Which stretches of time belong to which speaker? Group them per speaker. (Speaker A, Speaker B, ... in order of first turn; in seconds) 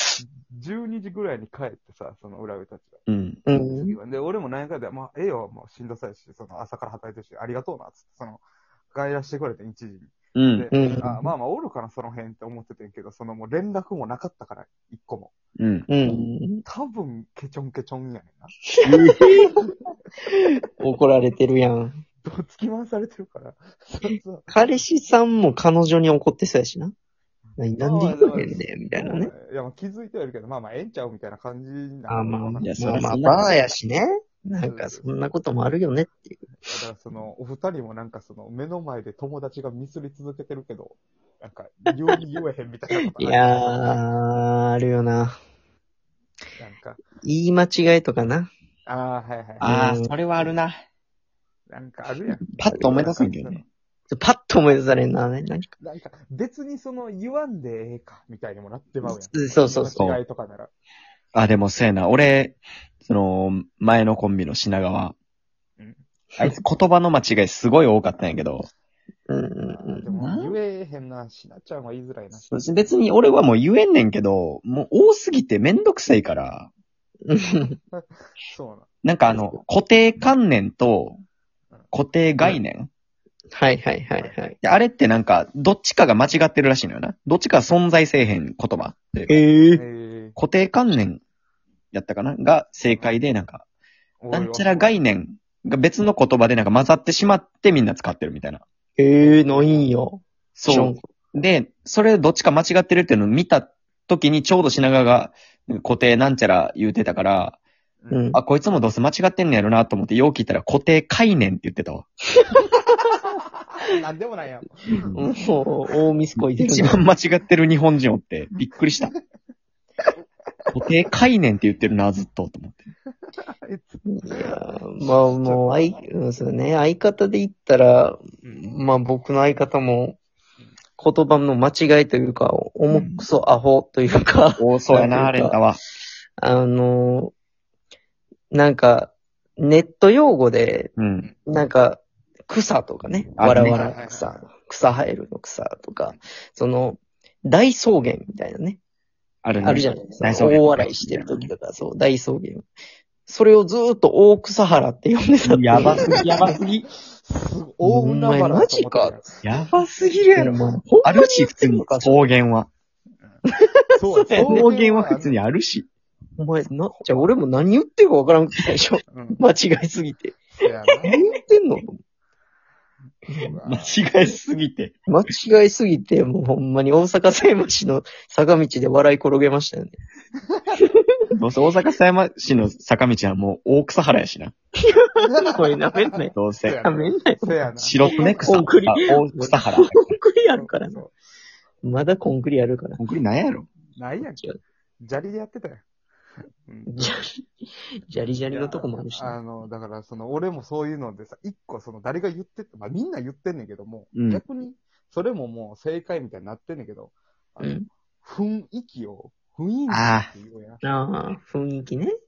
Speaker A: 0.2-3.0, 3.8-15.3, 16.7-18.5, 22.2-24.7, 27.8-33.5, 34.6-35.1, 36.6-44.0, 46.6-47.0, 48.9-49.7, 51.7-53.7, 55.8-60.7, 65.8-66.0, 69.7-72.5, 77.9-78.9, 89.7-90.4, 92.8-93.2, 94.2-95.0, 99.2-99.9, 113.8-115.3, 123.5-126.0, 128.4-128.7, 143.7-144.4, 155.8-159.4, 164.0-165.3, 169.1-169.4, 170.6-171.2, 173.4-173.9, 185.2-188.5, 190.5-191.1, 193.9-194.4, 195.0-195.8, 196.7-197.1, 198.5-210.8
Speaker B: 3.1-3.4, 10.4-10.7, 15.6-15.9, 18.8-19.5, 32.6-33.6, 49.6-50.8, 52.6-53.6, 61.3-65.2, 66.4-68.7, 70.2-70.6, 72.5-76.7, 79.0-81.2, 81.9-82.9, 84.6-89.3, 90.4-91.2, 91.9-93.6, 94.3-98.6, 100.6-107.6, 108.3-112.1, 115.0-115.3, 116.4-119.1, 120.7-122.9, 132.9-133.3, 134.6-135.8, 141.0-141.3, 143.4-144.0, 149.4-151.5, 155.4-156.8, 159.4-162.7, 164.5-165.9, 173.7-175.0, 181.3-184.5, 186.3-186.8, 187.8-190.0, 193.0-193.7, 204.1-204.4, 209.9-210.3
Speaker C: 3.5-4.0, 10.7-11.3, 15.9-16.6, 18.7-19.5, 20.3-22.0, 24.5-26.9, 27.6-29.3, 32.1-36.2, 43.2-45.4, 47.2-48.5, 49.6-50.1, 52.4-53.1, 54.1-55.7, 59.0-60.1, 69.3-70.1, 77.3-77.8, 79.3-79.6, 83.5-84.6, 89.3-89.8, 99.0-101.0, 108.1-108.4, 115.2-117.0, 124.1-130.2, 131.0-135.6, 136.4-137.3, 138.5-140.9, 141.5-148.8, 149.6-152.7, 153.3-156.7, 157.8-159.2, 160.4-162.2, 163.9-164.7, 166.4-170.4, 171.0-171.8, 173.3-173.6, 175.1-180.0, 184.9-191.0, 191.8-193.0, 194.3-194.6, 196.9-197.4, 198.1-199.4, 210.8-212.1